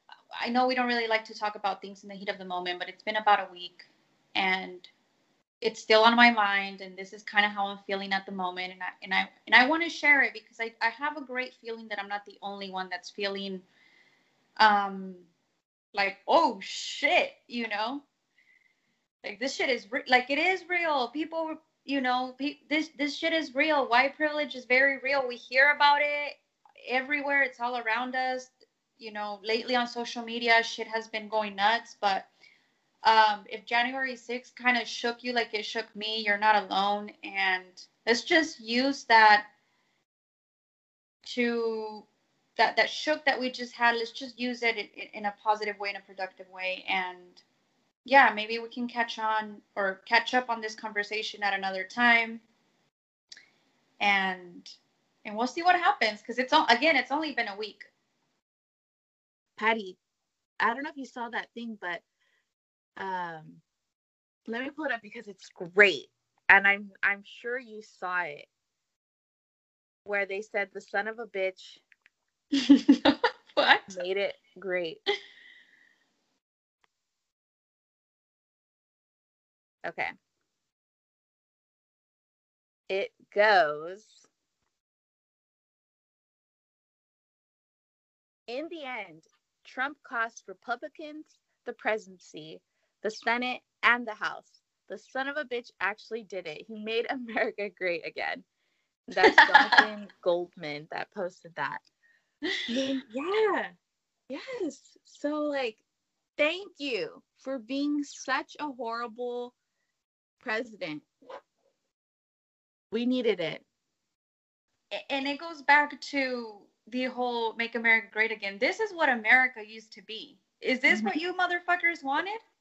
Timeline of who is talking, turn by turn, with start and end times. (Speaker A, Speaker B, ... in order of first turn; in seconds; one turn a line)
Speaker A: 0.4-4.9
Speaker A: 5.6-13.6
Speaker A: 14.6-15.3
Speaker A: 15.9-18.0
Speaker A: 19.2-32.3
Speaker A: 33.0-39.5
Speaker A: 41.2-47.4
Speaker A: 48.0-52.4
Speaker A: 54.0-54.7
Speaker A: 55.2-57.9
Speaker B: 59.6-60.0
Speaker B: 60.6-62.0
Speaker B: 63.0-63.6
Speaker B: 64.5-68.5
Speaker B: 70.0-71.8
Speaker A: 72.5-73.9
Speaker B: 73.9-75.0
Speaker B: 79.8-80.1
Speaker B: 82.9-84.3
Speaker B: 88.5-98.5
Speaker B: 99.1-101.8
Speaker A: 99.2-99.8
Speaker B: 102.7-103.7
Speaker B: 104.3-105.8
Speaker B: 106.4-109.5
Speaker B: 110.4-111.0
Speaker B: 112.9-113.6
Speaker A: 114.9-122.4
Speaker B: 120.9-121.2